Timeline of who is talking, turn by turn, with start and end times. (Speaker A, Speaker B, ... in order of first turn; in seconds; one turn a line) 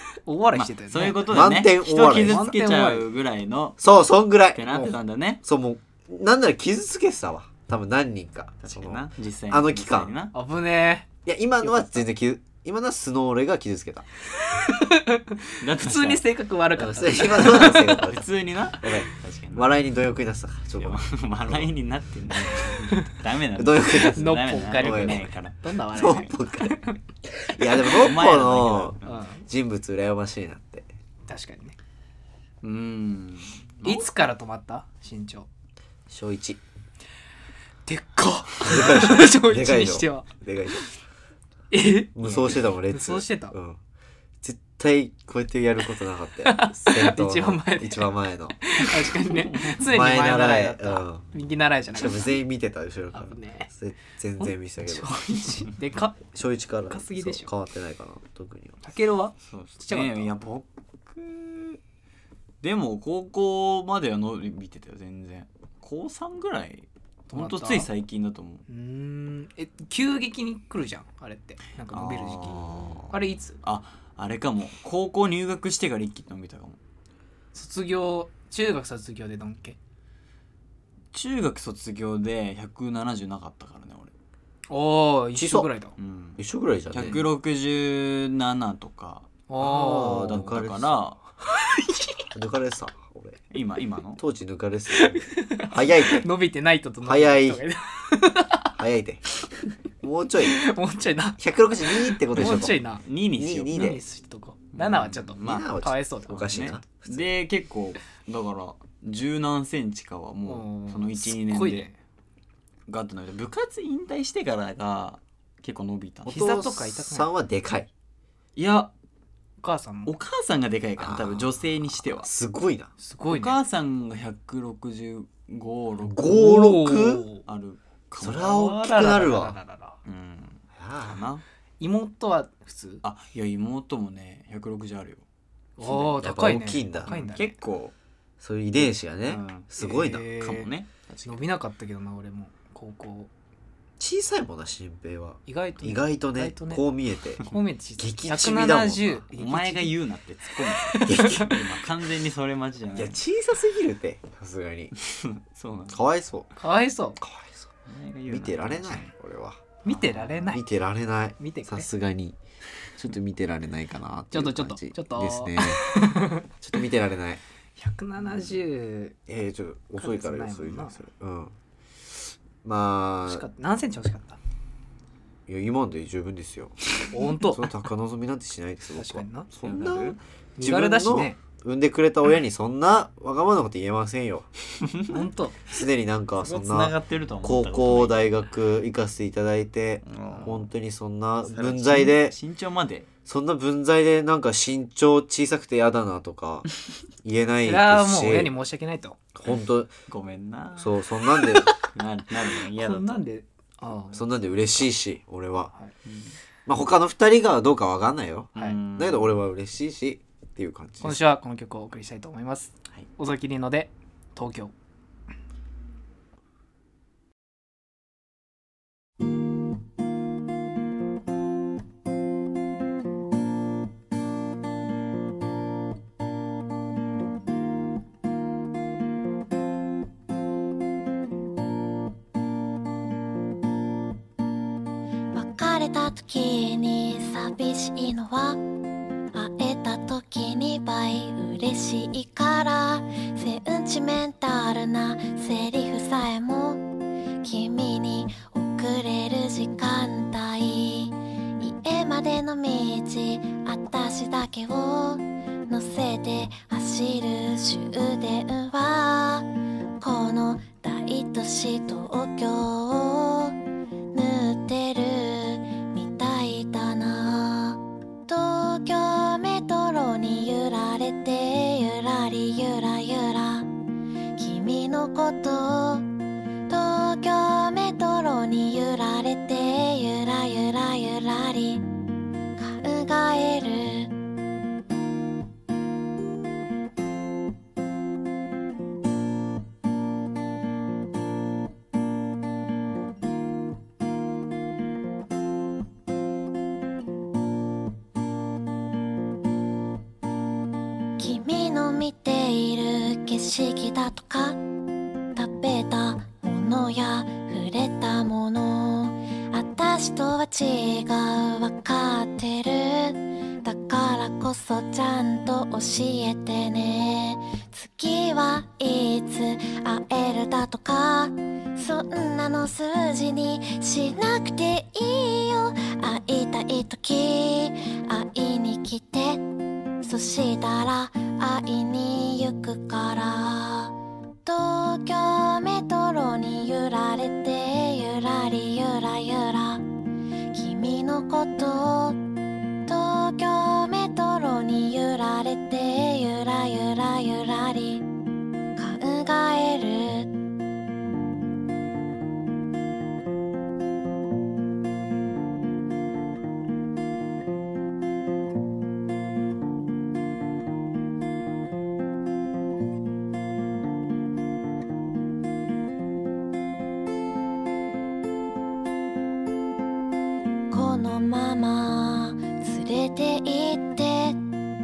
Speaker A: 0.2-1.3
Speaker B: 0.5-3.8
Speaker C: 1.3-2.6
Speaker A: 2.2-3.1
Speaker C: 3.8-10.1
Speaker B: 4.5-5.4
Speaker B: 8.6-10.3
Speaker A: 10.3-11.1
Speaker C: 11.3-14.1
Speaker A: 14.4-18.0
Speaker B: 15.6-16.3
Speaker C: 16.8-21.7
Speaker B: 17.4-19.7
Speaker B: 20.8-26.3
Speaker A: 22.9-23.1
Speaker C: 23.6-25.2
Speaker A: 24.0-27.0
Speaker C: 25.9-30.9
Speaker B: 27.9-29.2
Speaker A: 29.0-29.4
Speaker A: 31.3-31.8
Speaker B: 32.6-34.1
Speaker A: 33.8-35.5
Speaker C: 36.1-36.6
Speaker A: 37.9-40.3
Speaker C: 38.6-40.9
Speaker A: 41.7-43.5
Speaker C: 42.1-43.8
Speaker C: 44.4-48.6
Speaker A: 46.5-48.1
Speaker A: 48.6-52.4
Speaker B: 49.1-49.8
Speaker C: 49.8-51.2
Speaker C: 51.9-55.2
Speaker A: 53.1-53.7
Speaker A: 54.4-56.2
Speaker C: 56.3-58.8
Speaker A: 56.9-57.5
Speaker A: 58.8-60.3
Speaker B: 59.4-61.8
Speaker B: 62.6-68.6
Speaker A: 67.3-67.9
Speaker A: 68.7-73.6
Speaker B: 71.9-76.8
Speaker A: 77.5-79.8
Speaker B: 81.1-84.1
Speaker A: 84.7-85.9
Speaker C: 85.3-85.7
Speaker B: 86.0-86.4
Speaker C: 86.4-87.2
Speaker B: 86.9-91.2
Speaker A: 89.5-90.4
Speaker C: 89.6-90.9
Speaker A: 91.6-92.3
Speaker C: 92.3-93.4
Speaker B: 93.5-94.2
Speaker C: 94.2-96.3
Speaker A: 94.9-98.7
Speaker C: 97.0-97.6
Speaker C: 98.8-99.2
Speaker C: 100.0-100.6
Speaker A: 100.4-103.0
Speaker C: 101.4-102.8
Speaker B: 102.4-104.0
Speaker C: 103.4-104.0
Speaker A: 103.7-106.5
Speaker B: 104.7-105.7
Speaker C: 105.4-107.3
Speaker B: 106.3-111.9
Speaker A: 110.5-112.0
Speaker B: 112.9-116.4
Speaker C: 116.2-117.9
Speaker A: 116.3-117.3
Speaker B: 118.6-118.9
Speaker A: 119.6-120.1
Speaker B: 120.1-122.3
Speaker C: 121.0-122.9
Speaker A: 123.0-123.6
Speaker B: 123.3-126.2
Speaker C: 126.1-127.3
Speaker A: 126.2-127.4
Speaker B: 127.5-128.5
Speaker C: 128.2-129.6
Speaker A: 128.3-130.0
Speaker B: 130.1-131.4
Speaker C: 130.8-131.2
Speaker A: 131.8-133.0
Speaker B: 133.0-135.2
Speaker A: 135.8-137.6
Speaker B: 135.8-136.4
Speaker C: 136.2-137.2
Speaker B: 137.1-137.9
Speaker C: 138.4-140.3
Speaker B: 139.3-139.7
Speaker A: 139.8-140.7
Speaker B: 140.4-141.4
Speaker A: 141.2-143.3
Speaker C: 144.0-147.4
Speaker A: 145.5-146.9
Speaker A: 147.4-150.0
Speaker C: 148.0-149.2
Speaker B: 149.3-153.2
Speaker A: 150.7-151.5
Speaker C: 151.1-151.6
Speaker C: 152.9-154.9
Speaker B: 155.0-156.0
Speaker C: 155.9-156.5
Speaker A: 156.6-157.2
Speaker C: 157.2-157.7
Speaker B: 157.9-159.1
Speaker C: 158.3-159.6
Speaker A: 159.8-160.6
Speaker B: 159.9-160.6
Speaker C: 160.5-162.4
Speaker A: 161.4-161.9
Speaker C: 163.0-167.4
Speaker A: 164.3-166.5
Speaker A: 167.8-169.2
Speaker C: 169.3-171.6
Speaker A: 170.0-171.0
Speaker C: 172.6-173.4
Speaker A: 173.3-174.4
Speaker C: 175.5-176.9
Speaker A: 177.1-177.7
Speaker C: 177.4-184.5
Speaker A: 179.0-179.5
Speaker B: 179.6-180.2
Speaker A: 180.6-181.4
Speaker B: 184.8-185.2
Speaker A: 185.1-185.7
Speaker C: 185.7-192.4
Speaker B: 186.4-188.2
Speaker B: 190.1-190.7
Speaker B: 191.4-193.1
Speaker C: 193.3-196.7
Speaker C: 197.2-198.5
Speaker A: 197.7-199.2
Speaker C: 199.3-199.9
Speaker B: 199.5-203.2
Speaker C: 200.8-201.7
Speaker A: 202.8-204.3
Speaker C: 204.1-205.7
Speaker B: 206.1-206.4
Speaker C: 206.7-211.2
Speaker B: 208.6-209.4
Speaker A: 211.0-214.7
Speaker D: 235.3-238.6
Speaker D: 239.3-259.5
Speaker D: 260.0-263.6
Speaker D: 264.1-273.7
Speaker D: 274.4-276.1
Speaker D: 276.7-281.8
Speaker D: 282.6-284.2
Speaker D: 301.2-304.6
Speaker D: 305.4-329.5
Speaker D: 330.0-339.9
Speaker D: 340.5-342.3
Speaker D: 342.9-348.1
Speaker D: 348.8-350.4
Speaker D: 370.7-374.4